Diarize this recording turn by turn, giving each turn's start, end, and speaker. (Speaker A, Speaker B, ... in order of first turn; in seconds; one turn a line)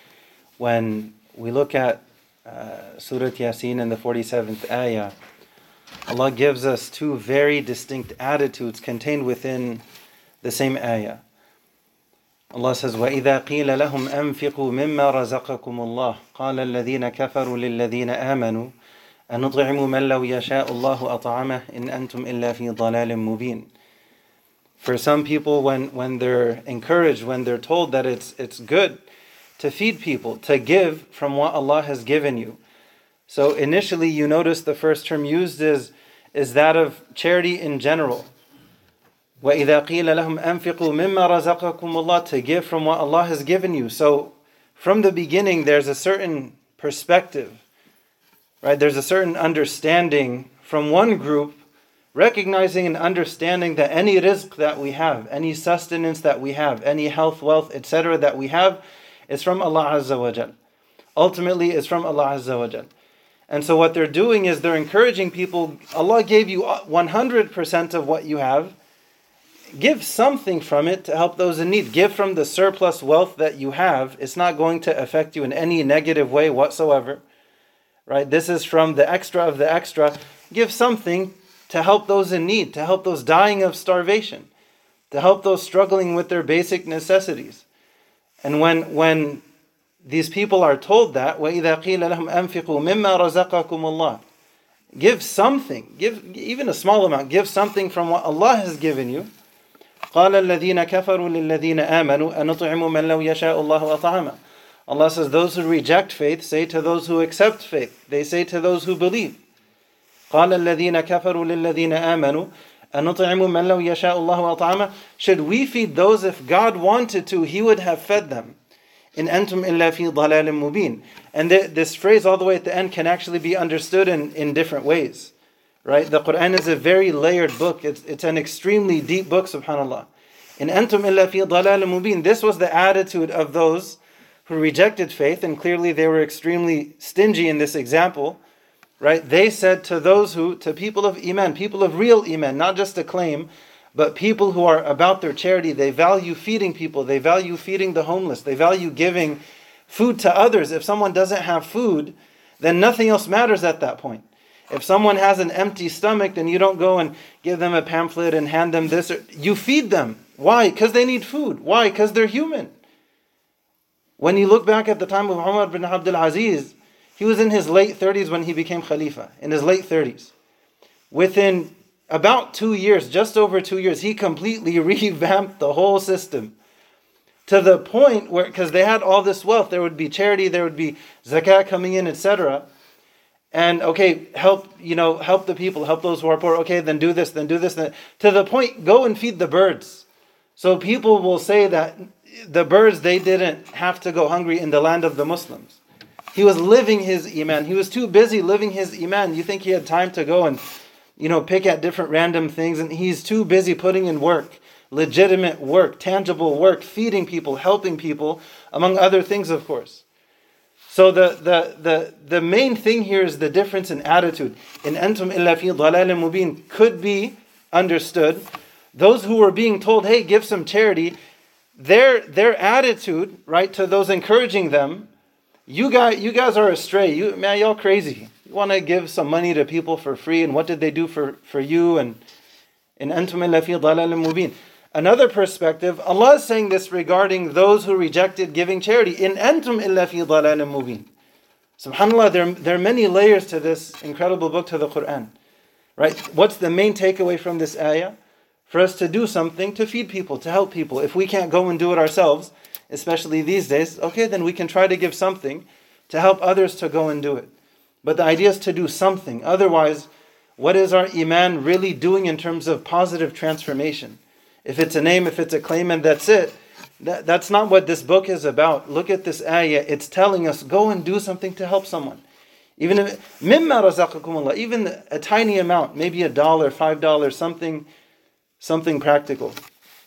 Speaker A: 0.6-5.1
Speaker A: 6.1-9.8
Speaker A: 10.4-11.2
Speaker A: 12.5-18.7
Speaker A: 19.3-23.7
Speaker A: 24.8-29.0
Speaker A: 29.6-32.6
Speaker A: 33.3-38.3
Speaker A: 39.4-47.6
Speaker A: 48.6-51.6
Speaker A: 52.1-60.5
Speaker A: 61.2-62.9
Speaker A: 63.5-68.8
Speaker A: 69.8-77.2
Speaker A: 78.1-84.5
Speaker A: 85.1-87.7
Speaker A: 88.4-89.4
Speaker A: 90.0-94.2
Speaker A: 95.0-99.3
Speaker A: 100.1-109.4
Speaker A: 110.3-118.6
Speaker A: 119.2-125.3
Speaker A: 125.8-138.4
Speaker A: 139.0-162.7
Speaker A: 164.2-170.3
Speaker A: 171.1-176.6
Speaker A: 177.5-182.7
Speaker A: 183.5-190.1
Speaker A: 190.6-195.8
Speaker A: 196.3-200.6
Speaker A: 201.2-210.1
Speaker A: 210.9-221.2
Speaker A: 221.8-225.1
Speaker A: 225.7-232.2
Speaker A: 233.0-241.1
Speaker A: 241.8-245.3
Speaker A: 246.0-248.2
Speaker A: 248.7-257.5
Speaker A: 258.0-272.2
Speaker A: 272.8-277.9
Speaker A: 278.6-279.6